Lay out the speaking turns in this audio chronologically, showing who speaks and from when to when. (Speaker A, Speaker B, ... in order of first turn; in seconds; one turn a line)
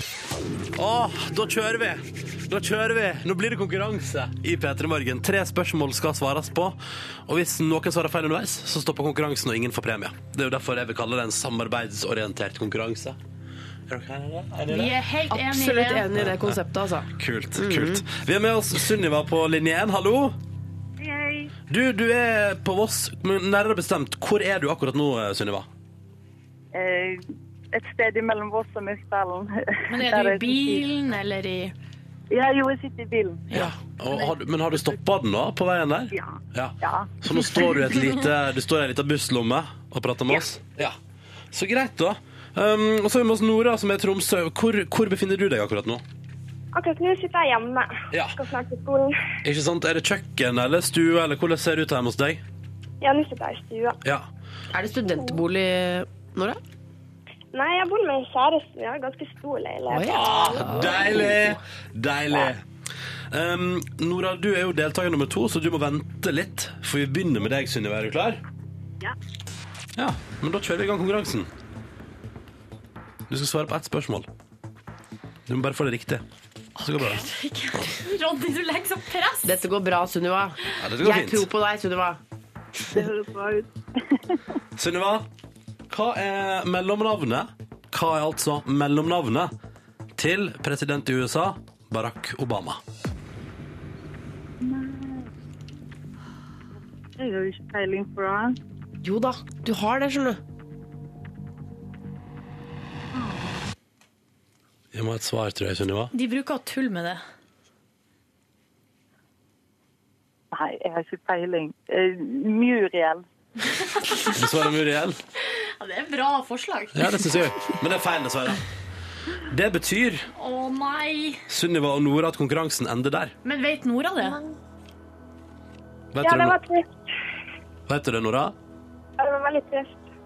Speaker A: 0.7-6.8
Speaker A: 7.3-13.2
Speaker A: 13.9-14.9
Speaker B: 14.7-16.1
Speaker C: 15.3-18.0
Speaker A: 16.2-16.6
Speaker A: 17.2-20.3
Speaker D: 21.0-21.5
Speaker A: 21.7-25.6
Speaker D: 26.7-30.9
Speaker B: 29.9-31.7
Speaker D: 32.3-33.5
Speaker A: 33.5-41.0
Speaker D: 36.1-37.7
Speaker A: 41.5-46.0
Speaker E: 46.7-49.2
Speaker A: 48.1-48.4
Speaker A: 49.4-52.4
Speaker E: 53.0-54.0
Speaker C: 54.7-56.6
Speaker E: 57.5-61.3
Speaker C: 59.9-61.6
Speaker A: 60.0-62.6
Speaker A: 63.3-68.4
Speaker A: 70.0-71.5
Speaker A: 73.3-74.3
Speaker A: 75.5-76.2
Speaker B: 76.8-79.6
Speaker A: 76.8-77.2
Speaker C: 79.4-82.2
Speaker A: 80.8-81.5
Speaker D: 82.9-84.4
Speaker A: 84.8-85.2
Speaker A: 85.9-89.5
Speaker A: 90.2-92.8
Speaker D: 94.6-95.3
Speaker D: 97.2-98.6
Speaker C: 99.0-100.4
Speaker D: 103.1-103.5
Speaker A: 104.9-106.1
Speaker B: 106.1-107.2
Speaker D: 110.5-113.2
Speaker B: 113.7-114.4
Speaker A: 114.3-115.2
Speaker B: 115.4-117.3
Speaker A: 117.0-118.6
Speaker A: 119.4-120.3
Speaker B: 120.3-121.4
Speaker A: 121.5-123.3
Speaker B: 123.4-124.4
Speaker A: 126.1-126.6
Speaker E: 126.2-127.1
Speaker A: 127.9-128.5
Speaker E: 129.2-130.0